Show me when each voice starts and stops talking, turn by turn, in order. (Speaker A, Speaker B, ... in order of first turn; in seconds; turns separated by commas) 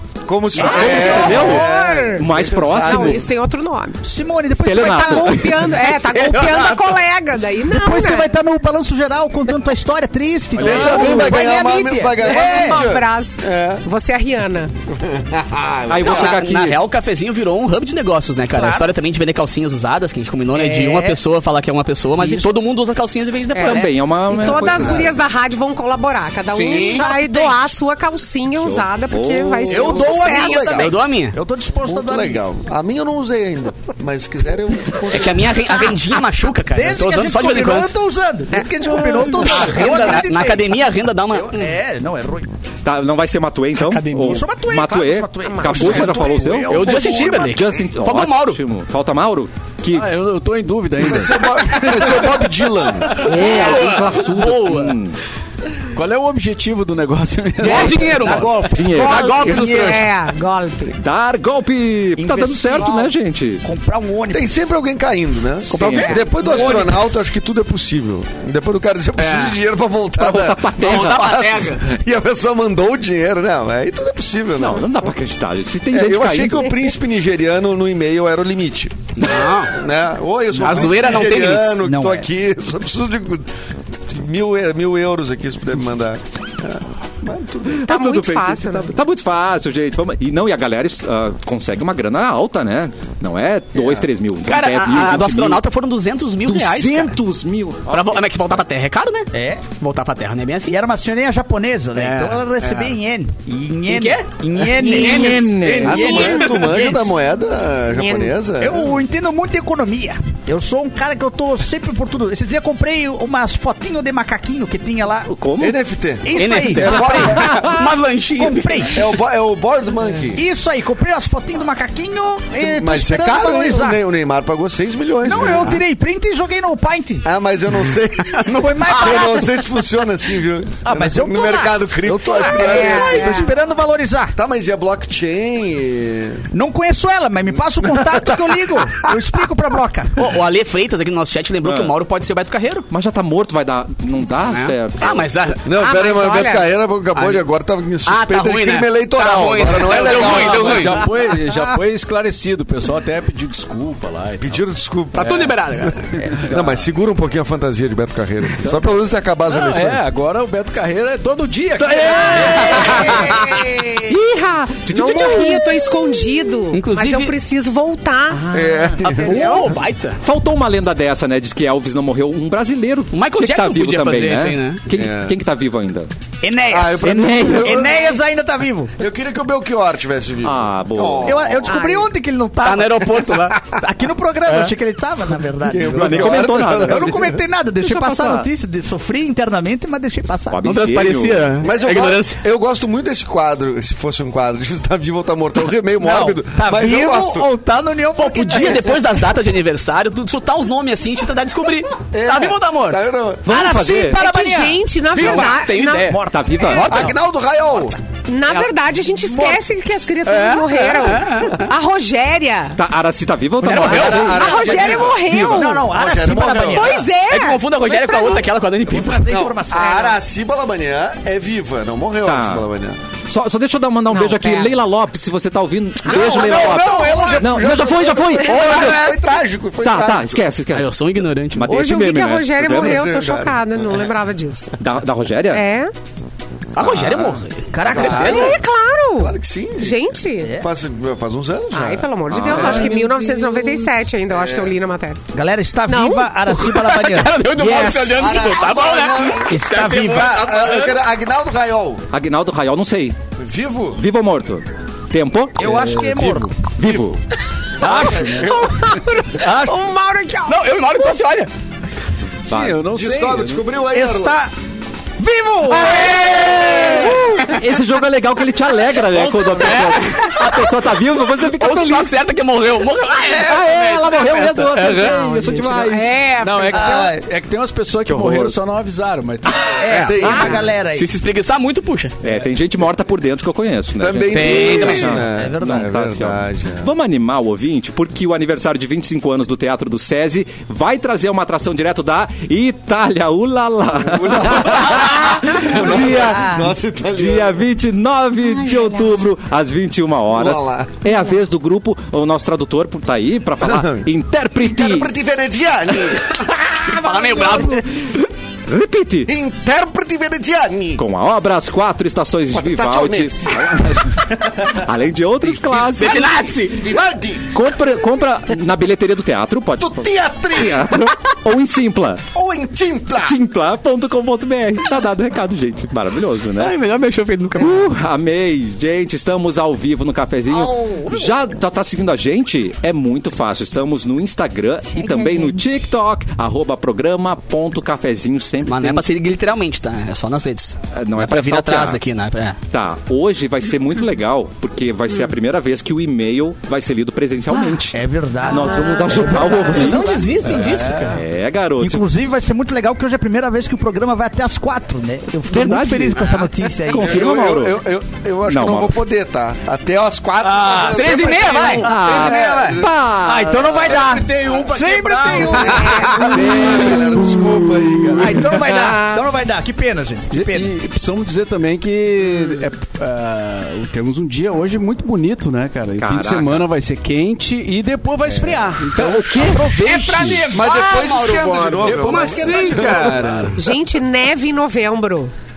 Speaker A: 0.3-3.2, Speaker B: 0.5-3.2, Speaker C: 0.6-2.1, Speaker D: 0.7-2.2, Speaker D: 2.8-4.0, Speaker C: 4.0-5.7, Speaker B: 4.6-5.6, Speaker D: 4.8-8.3, Speaker E: 6.1-6.8, Speaker C: 7.7-12.9, Speaker B: 10.6-11.4, Speaker A: 10.6-13.8, Speaker D: 12.2-14.7, Speaker A: 14.9-16.4, Speaker B: 15.9-16.8, Speaker E: 16.0-23.9, Speaker C: 18.5-18.9, Speaker C: 20.5-21.2, Speaker C: 22.2-22.5, Speaker D: 23.5-30.9, Speaker B: 23.6-25.1, Speaker A: 24.6-25.1, Speaker E: 26.5-27.1, Speaker C: 26.6-27.6, Speaker B: 28.6-30.0, Speaker C: 29.7-32.4, Speaker A: 29.8-31.0, Speaker E: 29.9-31.4, Speaker A: 31.9-35.7, Speaker E: 35.1-37.9, Speaker C: 36.7-40.8, Speaker D: 38.6-39.3, Speaker E: 39.0-41.7, Speaker C: 41.3-42.5, Speaker B: 42.8-50.1, Speaker E: 43.9-44.4, Speaker C: 44.2-47.5, Speaker D: 45.5-45.9, Speaker E: 46.7-48.6, Speaker F: 49.9-52.2, Speaker A: 51.0-53.2, Speaker B: 53.1-55.2, Speaker E: 53.2-55.0, Speaker F: 55.9-58.3, Speaker E: 57.6-60.1, Speaker C: 57.6-60.0, Speaker B: 58.7-59.5, Speaker D: 59.4-61.0, Speaker B: 61.0-63.6, Speaker C: 62.2-64.5, Speaker A: 64.3-74.9, Speaker B: 65.7-66.8, Speaker E: 65.7-67.0, Speaker D: 66.0-66.3, Speaker E: 69.2-69.6, Speaker B: 70.2-71.4, Speaker E: 70.8-71.8, Speaker B: 74.5-76.7, Speaker A: 75.9-87.9, Speaker E: 79.2-79.7, Speaker E: 80.5-81.8, Speaker C: 81.8-82.3, Speaker B: 87.7-95.6, Speaker D: 87.8-88.9, Speaker A: 93.7-94.1, Speaker E: 94.4-97.2, Speaker B: 96.4-98.2, Speaker E: 97.9-100.8, Speaker C: 99.3-99.6, Speaker C: 100.7-107.2, Speaker E: 102.0-102.4, Speaker E: 103.9-106.2, Speaker B: 104.7-106.3, Speaker A: 105.8-109.0, Speaker D: 106.0-106.5, Speaker D: 107.9-108.4, Speaker C: 108.6-115.3, Speaker B: 115.3-115.8, Speaker A: 115.6-117.5, Speaker C: 116.2-117.3, Speaker E: 116.3-119.0, Speaker B: 116.9-117.9, Speaker C: 118.3-119.0, Speaker A: 118.9-120.4, Speaker C: 120.3-124.0, Speaker A: 122.6-125.8, Speaker C: 125.2-127.3, Speaker A: 127.2-133.4, Speaker C: 128.3-129.7, Speaker C: 130.8-134.3, Speaker D: 132.6-133.5, Speaker A: 134.4-136.4, Speaker C: 136.5-140.3, Speaker A: 137.8-138.4, Speaker E: 140.2-142.9, Speaker B: 141.6-141.9, Speaker B: 142.9-145.3, Speaker E: 144.5-145.6, Speaker A: 145.7-151.0, Speaker D: 145.7-146.7, Speaker E: 147.1-147.4, Speaker E: 148.0-151.0, Speaker F: 149.8-154.6, Speaker C: 151.5-151.8, Speaker A: 154.4-155.8, Speaker E: 155.1-156.0, Speaker F: 156.2-156.6, Speaker A: 156.4-160.0, Speaker F: 159.5-163.1, Speaker C: 162.3-163.6, Speaker E: 162.3-163.6, Speaker D: 163.1-164.1, Speaker B: 164.0-165.7, Speaker D: 164.9-169.8, Speaker E: 166.7-167.3, Speaker B: 168.4-169.5, Speaker A: 168.5-169.5, Speaker E: 169.2-170.2, Speaker B: 170.2-176.1, Speaker E: 173.1-174.8, Speaker A: 174.9-175.3, Speaker C: 176.4-178.9, Speaker A: 176.7-178.1, Speaker B: 177.2-177.8, Speaker A: 179.0-181.8, Speaker B: 180.4-181.5, Speaker C: 181.2-190.6, Speaker D: 181.7-182.1, Speaker E: 182.6-183.6, Speaker A: 185.7-187.4, Speaker B: 185.9-187.2, Speaker B: 187.8-188.5, Speaker B: 190.5-191.5, Speaker E: 190.6-192.4, Speaker A: 191.6-197.5, Speaker C: 196.0-199.0, Speaker E: 198.2-203.0, Speaker A: 202.1-203.5, Speaker B: 203.4-204.2, Speaker C: 203.4-205.2, Speaker D: 204.1-206.2, Speaker A: 205.1-205.6, Speaker E: 205.1-207.2, Speaker C: 206.0-207.1, Speaker B: 206.3-207.0, Speaker A: 206.8-208.0, Speaker D: 208.2-212.8, Speaker E: 210.2-211.7, Speaker B: 212.8-215.6, Speaker E: 213.6-214.4, Speaker A: 213.7-217.0, Speaker C: 214.0-214.5, Speaker D: 214.1-215.9, Speaker C: 215.3-217.1, Speaker D: 216.7-217.6, Speaker E: 217.3-219.3, Speaker C: 217.9-220.2, Speaker A: 219.2-223.0, Speaker D: 219.8-220.1, Speaker B: 222.2-222.6, Speaker B: 223.3-229.1, Speaker D: 224.1-224.7, Speaker A: 226.0-230.4, Speaker D: 226.1-227.4, Speaker E: 228.5-229.2, Speaker B: 229.8-233.0, Speaker E: 230.7-231.9, Speaker D: 231.7-234.7, Speaker A: 232.6-234.1, Speaker B: 234.8-235.6, Speaker D: 235.5-235.9, Speaker E: 236.7-238.5, Speaker B: 236.8-237.4, Speaker C: 237.7-238.5, Speaker A: 237.8-238.6, Speaker D: 238.0-240.6, Speaker A: 239.2-243.0, Speaker C: 240.4-240.7, Speaker D: 241.7-245.2, Speaker B: 242.3-243.8, Speaker A: 244.3-244.7, Speaker C: 245.3-248.5, Speaker D: 245.9-246.3, Speaker E: 246.5-251.0, Speaker A: 248.1-252.0, Speaker C: 249.3-250.4, Speaker B: 252.1-253.2, Speaker A: 253.4-254.0, Speaker B: 253.9-257.2, Speaker C: 255.6-256.6, Speaker F: 255.6-256.5, Speaker A: 256.8-257.1, Speaker C: 257.8-258.6, Speaker A: 257.8-258.7, Speaker F: 257.9-258.3, Speaker D: 258.4-260.6, Speaker C: 259.3-259.8, Speaker E: 260.4-261.5, Speaker F: 262.4-263.7, Speaker B: 262.5-262.8, Speaker A: 262.9-264.4, Speaker C: 263.9-264.5, Speaker C: 265.2-267.1, Speaker B: 265.7-272.1, Speaker E: 266.3-267.6, Speaker E: 269.1-270.6, Speaker E: 271.5-275.1, Speaker B: 273.4-276.1, Speaker F: 274.7-275.1, Speaker D: 275.0-277.0, Speaker F: 276.4-280.0, Speaker C: 276.7-277.2, Speaker B: 278.1-278.6, Speaker C: 279.8-281.1, Speaker E: 279.8-282.1, Speaker A: 279.9-280.7, Speaker B: 282.2-305.1, Speaker A: 284.0-286.9, Speaker E: 284.3-285.2, Speaker C: 285.3-285.9, Speaker A: 294.0-297.6, Speaker C: 295.8-296.7, Speaker C: 298.5-299.2, Speaker A: 300.3-300.9, Speaker A: 303.6-304.1, Speaker A: 304.6-306.4, Speaker E: 306.6-308.3, Speaker C: 307.2-307.6, Speaker B: 308.7-309.3, Speaker A: 309.3-311.0, Speaker B: 311.0-316.4, Speaker A: 312.5-313.8, Speaker A: 315.7-317.4, Speaker E: 315.9-316.9, Speaker B: 317.5-322.2, Speaker A: 319.8-320.9, Speaker A: 322.3-323.4, Speaker B: 323.2-326.8, Speaker E: 326.6-327.9, Speaker B: 327.6-339.1, Speaker C: 334.9-335.9, Speaker E: 338.6-342.6, Speaker B: 340.9-342.0, Speaker B: 342.7-352.1, Speaker C: 347.5-350.5, Speaker E: 349.3-351.2, Speaker F: 350.4-351.2, Speaker C: 351.8-357.3, Speaker B: 355.5-357.8, Speaker A: 356.9-362.9, Speaker B: 358.4-358.9, Speaker F: 360.4-362.4, Speaker C: 360.6-360.9, Speaker E: 360.9-362.8, Speaker B: 361.8-363.9, Speaker C: 363.2-366.6, Speaker F: 363.7-366.2, Speaker A: 365.3-368.5, Speaker D: 365.7-366.5, Speaker B: 366.1-369.2, Speaker C: 368.1-370.7, Speaker F: 370.3-380.6, Speaker B: 376.0-376.6, Speaker B: 379.0-379.5, Speaker C: 379.2-380.4, Speaker E: 379.8-383.3, Speaker A: 380.5-383.6, Speaker F: 381.9-383.6, Speaker D: 383.6-385.3